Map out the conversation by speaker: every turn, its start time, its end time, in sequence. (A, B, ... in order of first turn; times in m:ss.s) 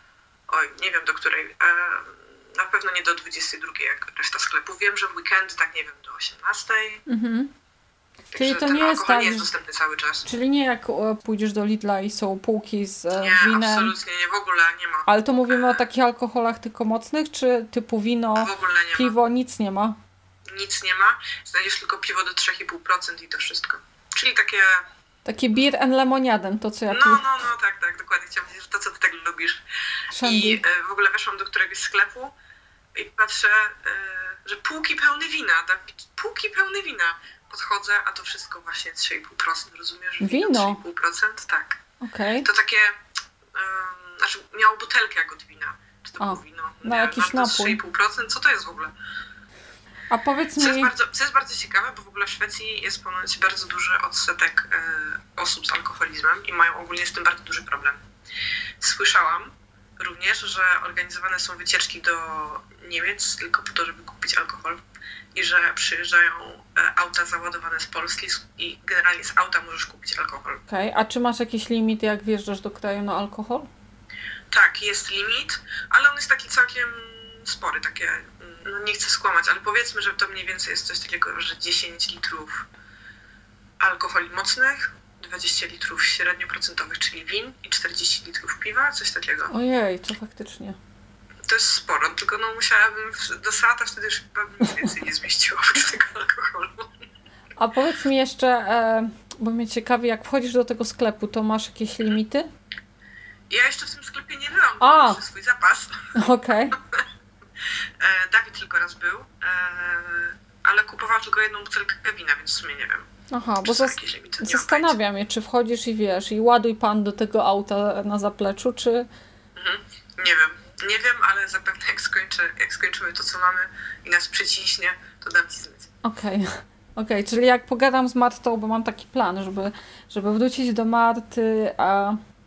0:00.5-0:07.0 A
0:07.1-0:07.5 B
0:08.3-0:10.3 A
0:08.3-0:09.5 B
0:10.3-0:13.9 B
0:13.2-0:15.7 A
0:15.1-0:20.0 B
0:18.4-0:19.1 A
0:20.5-0:24.8 A
0:25.3-0:27.3 B
0:26.9-0:29.6 A
0:30.1-0:30.6 B
0:30.2-0:32.3 A
0:33.0-0:41.8 A
0:40.2-0:40.8 B
0:42.0-0:42.5 B
0:42.4-0:43.0 A
0:43.5-0:48.9 A
0:46.2-0:47.8 B
0:50.1-0:50.9 B
0:50.6-0:58.0 A
0:58.8-1:04.8 A
1:05.3-1:10.6 A
1:10.7-1:13.7 B
1:14.5-1:22.7 A
1:23.8-1:29.5 A
1:29.5-1:30.8 B
1:31.5-1:37.0 A
1:37.6-1:42.5 B
1:43.5-1:46.1 A
1:44.8-1:45.2 B
1:46.2-1:46.8 B
1:48.0-1:53.1 A
1:53.3-1:59.1 B
1:53.6-1:55.0 A
1:59.6-2:05.9 A
2:06.0-2:12.2 B